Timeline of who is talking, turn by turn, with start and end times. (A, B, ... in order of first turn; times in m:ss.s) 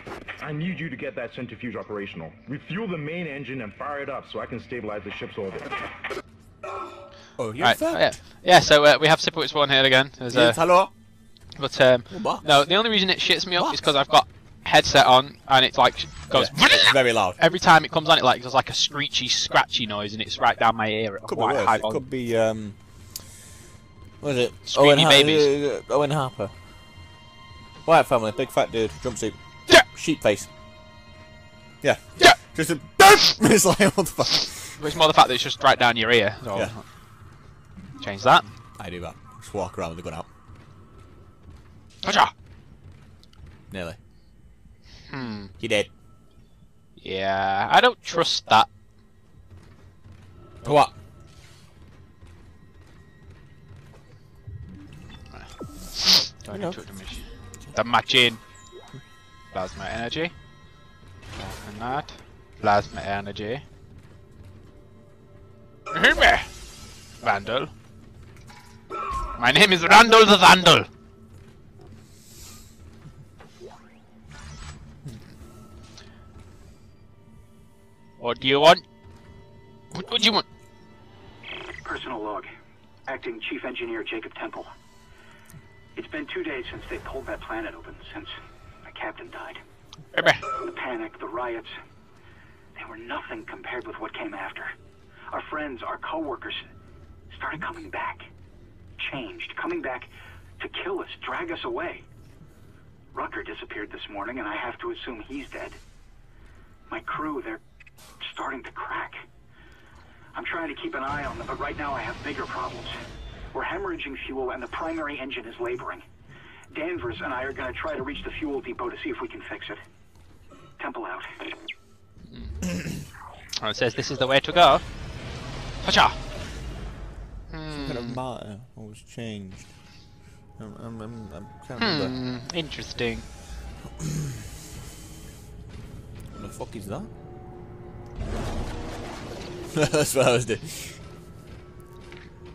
0:00.4-0:05.8 A
0:07.4-0:08.1 B
0:07.6-0:11.0 C
0:10.3-0:10.9 B
0:11.6-0:22.0 C
0:12.1-0:12.9 B
0:13.6-0:13.8 B
0:16.3-0:17.4 B
0:21.2-0:23.4 B
0:24.2-0:27.1 B
0:24.7-0:25.5 C
0:27.8-0:30.5 B
0:31.8-0:34.8 B
0:34.8-0:36.9 C
0:38.0-0:38.5 C
0:38.7-0:40.3 B
0:42.0-0:42.3 C
0:43.7-0:44.0 B
0:45.1-0:45.5 C
0:45.6-0:45.9 B
0:47.0-0:48.7 C
0:50.6-0:50.9 B
0:55.3-0:58.4 C
0:56.4-0:57.8 B
0:59.5-1:00.4 C
1:01.4-1:03.6 C
1:05.9-1:06.6 C
1:07.1-1:07.7 C
1:09.4-1:10.9 C
1:18.2-1:18.8 C
1:19.9-1:20.4 C
1:21.8-1:22.5 D
1:23.0-1:24.7 D
1:25.9-1:28.3 D
1:28.8-1:29.6 D
1:30.1-1:30.4 C
1:30.6-1:31.8 D
1:32.8-1:34.7 D
1:35.3-1:36.7 D
1:37.3-1:38.2 D
1:39.0-1:42.0 D
1:43.1-1:45.8 D
1:46.9-1:47.6 D
1:48.2-1:49.2 D
1:50.3-1:52.9 D
1:53.5-1:56.0 D
1:56.7-1:59.8 D
2:00.8-2:01.3 D
2:02.3-2:02.7 C
2:03.6-2:05.2 C
2:05.8-2:06.2 C
2:07.5-2:08.2 C
2:07.7-2:12.2 B
2:11.8-2:13.3 C
2:16.3-2:17.1 B
2:19.7-2:21.0 B